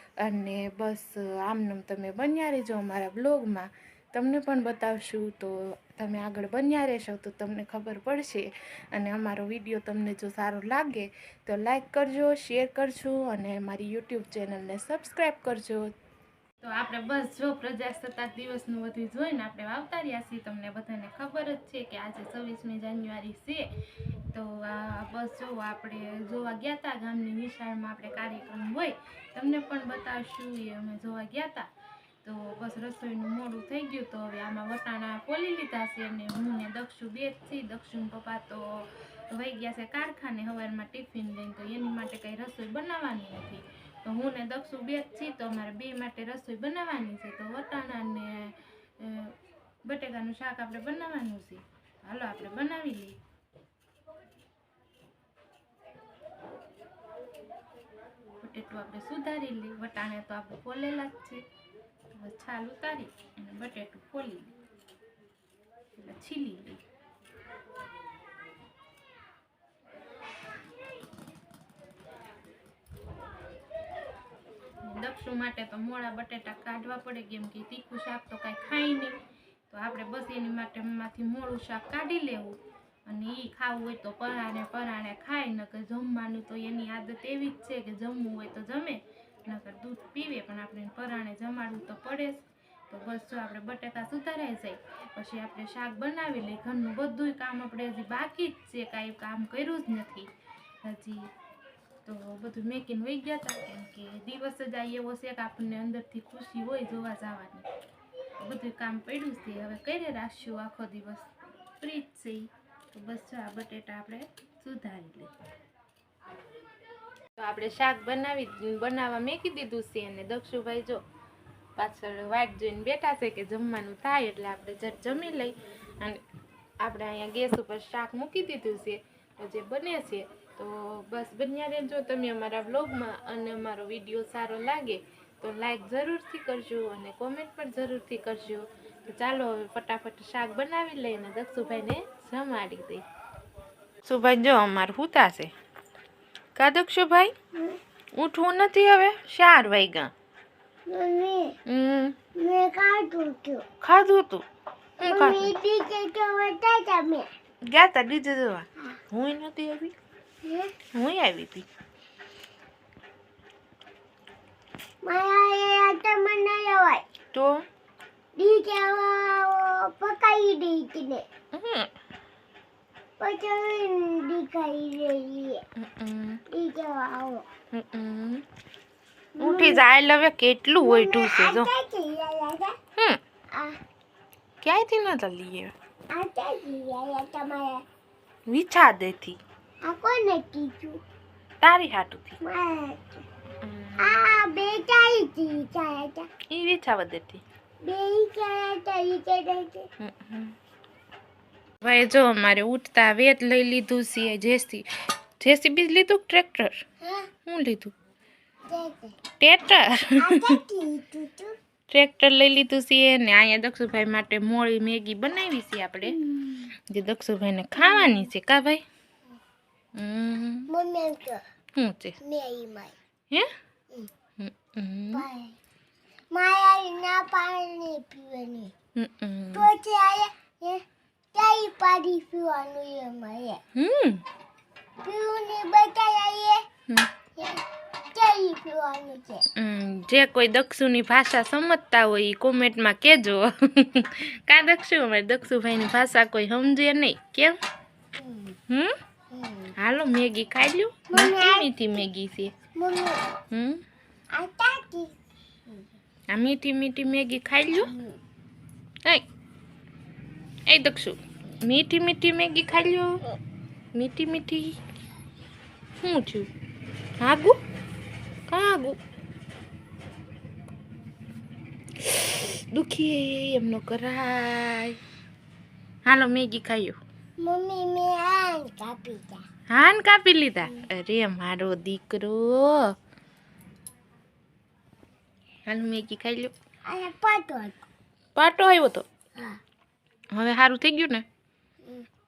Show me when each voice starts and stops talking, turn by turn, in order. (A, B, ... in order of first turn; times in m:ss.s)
0:00.2-0:15.9 A
0:16.6-0:23.6 A
0:24.3-0:31.7 A
0:32.2-0:49.3 A
0:49.9-0:53.2 A
0:58.4-1:01.4 A
1:02.1-1:04.5 A
1:06.0-1:06.8 A
1:14.8-1:19.2 A
1:19.7-1:40.3 A
1:40.8-1:41.3 A
1:42.0-1:47.7 A
1:48.4-1:55.3 A
1:57.4-2:01.0 A
2:01.8-2:06.2 A
2:06.8-2:23.0 A
2:24.0-2:25.5 A
2:26.6-2:27.3 A
2:28.2-2:30.1 A
2:30.9-2:31.6 B
2:31.7-2:32.2 A
2:32.4-2:33.6 B
2:33.8-2:34.4 A
2:35.0-2:35.5 A
2:35.0-2:37.3 B
2:37.7-2:39.9 A
2:40.4-2:40.7 B
2:40.9-2:41.7 A
2:45.0-2:47.0 B
2:47.3-2:47.6 A
2:48.4-2:51.2 B
2:51.5-2:51.9 A
2:53.2-2:55.6 B
2:55.8-2:56.4 A
2:56.5-2:57.5 B
2:57.7-2:58.4 A
2:59.4-2:59.8 B
2:59.4-3:01.7 A
3:00.8-3:02.8 B
3:04.6-3:05.7 A
3:06.1-3:07.8 B
3:08.5-3:09.4 A
3:09.8-3:11.0 B
3:11.6-3:12.4 A
3:12.4-3:13.2 B
3:13.6-3:14.2 A
3:14.0-3:16.3 B
3:16.5-3:17.4 A
3:17.8-3:19.9 B
3:20.0-3:20.5 A
3:21.8-3:24.9 A
3:25.4-3:26.8 A
3:27.0-3:27.3 B
3:27.4-3:27.9 A
3:28.7-3:29.2 B
3:29.4-3:30.6 A
3:30.2-3:31.6 B
3:31.9-3:36.2 A
3:36.1-3:36.7 B
3:36.9-3:38.8 A
3:37.8-3:38.3 B
3:40.0-3:40.7 A
3:40.7-3:41.4 B
3:41.8-3:42.2 A
3:42.2-3:42.9 B
3:44.4-3:45.2 A
3:45.1-3:45.6 B
3:46.3-3:48.7 B
3:49.0-3:49.7 A
3:49.5-3:50.8 B
3:51.3-3:53.6 B
3:53.8-3:54.2 A
3:55.0-3:56.6 B
3:57.4-3:59.4 B
3:59.6-4:07.6 A
4:08.2-4:08.6 B
4:08.7-4:09.0 A
4:09.3-4:09.7 B
4:09.8-4:12.5 A
4:11.1-4:12.0 B
4:12.8-4:13.3 B
4:13.5-4:13.8 A
4:14.3-4:15.2 B
4:16.3-4:17.9 A
4:17.8-4:18.2 B
4:20.7-4:23.2 A
4:24.0-4:24.8 A
4:26.0-4:26.5 A
4:27.2-4:27.6 A
4:28.5-4:29.0 A
4:32.0-4:35.0 A
4:36.1-4:37.0 A
4:37.4-4:39.4 B
4:39.7-4:42.8 A
4:45.7-4:46.5 A
4:46.9-4:47.8 B
4:48.4-4:49.0 A
4:50.3-4:51.2 A